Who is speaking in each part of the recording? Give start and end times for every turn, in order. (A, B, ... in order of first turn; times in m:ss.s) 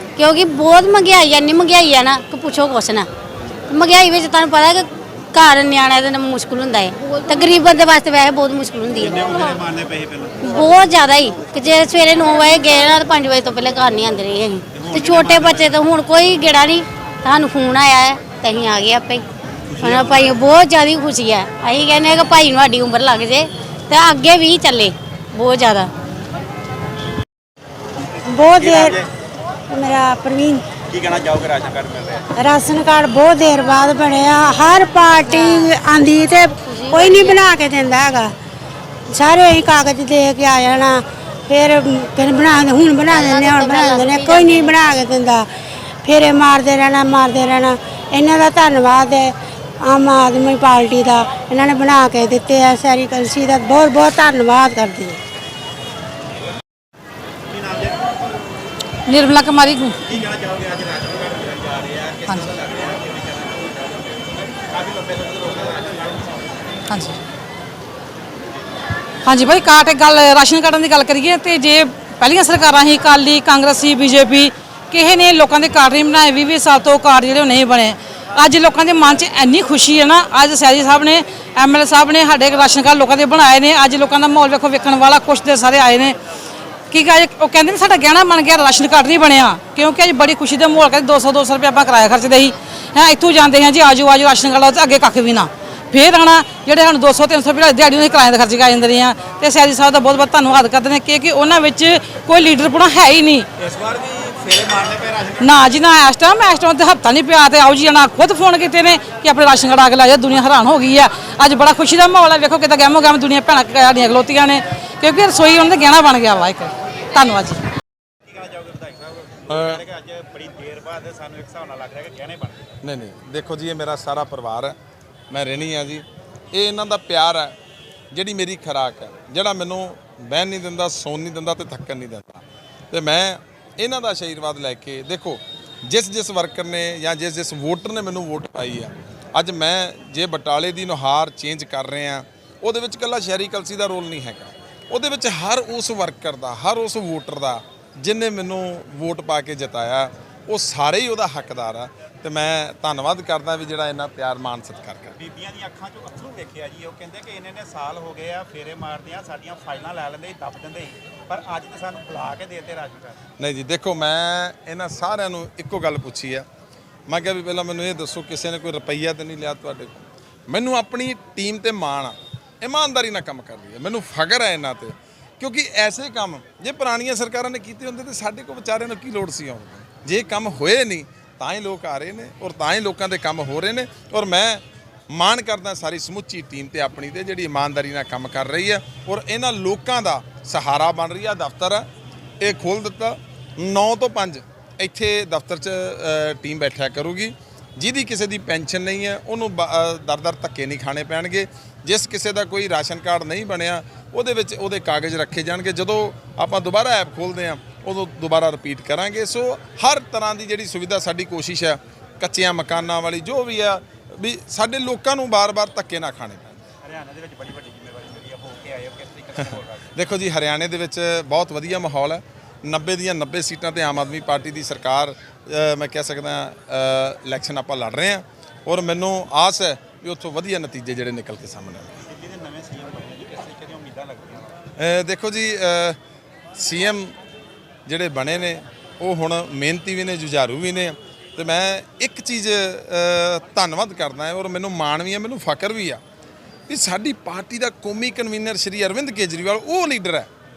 0:00.2-0:03.1 A
0:03.7-0:09.6 A
0:09.0-0:10.8 B
0:10.4-0:19.2 A
0:14.7-0:15.8 B
0:19.7-0:20.4 B
0:19.8-0:25.9 A
0:28.2-0:29.0 C
0:28.6-0:29.0 B
0:29.7-0:30.7 C
0:30.9-0:32.2 B
0:32.4-0:38.3 C
0:35.3-0:35.7 A
0:36.6-0:37.4 A
0:39.1-0:45.5 C
0:43.1-0:44.8 A
0:46.0-0:55.2 C
0:57.5-0:58.0 B
0:59.1-1:00.0 D
1:00.1-1:06.4 B
1:02.2-1:02.5 D
1:06.9-1:07.2 D
1:09.2-1:26.2 D
1:26.9-1:43.5 D
1:43.6-1:45.4 B
1:45.4-1:57.6 D
1:58.2-2:02.7 B
1:59.5-1:59.8 E
2:02.8-2:04.8 E
2:05.3-2:07.6 E
2:08.1-2:35.2 E
2:35.2-2:43.2 B
2:43.4-2:46.4 E
2:47.1-3:11.9 E
3:12.4-3:36.6 E
3:36.8-3:39.8 B
3:39.9-3:52.0 E
3:52.1-3:54.6 B
3:54.8-3:56.0 E
3:56.6-3:57.1 E
3:57.9-4:06.0 E
4:06.7-4:10.3 E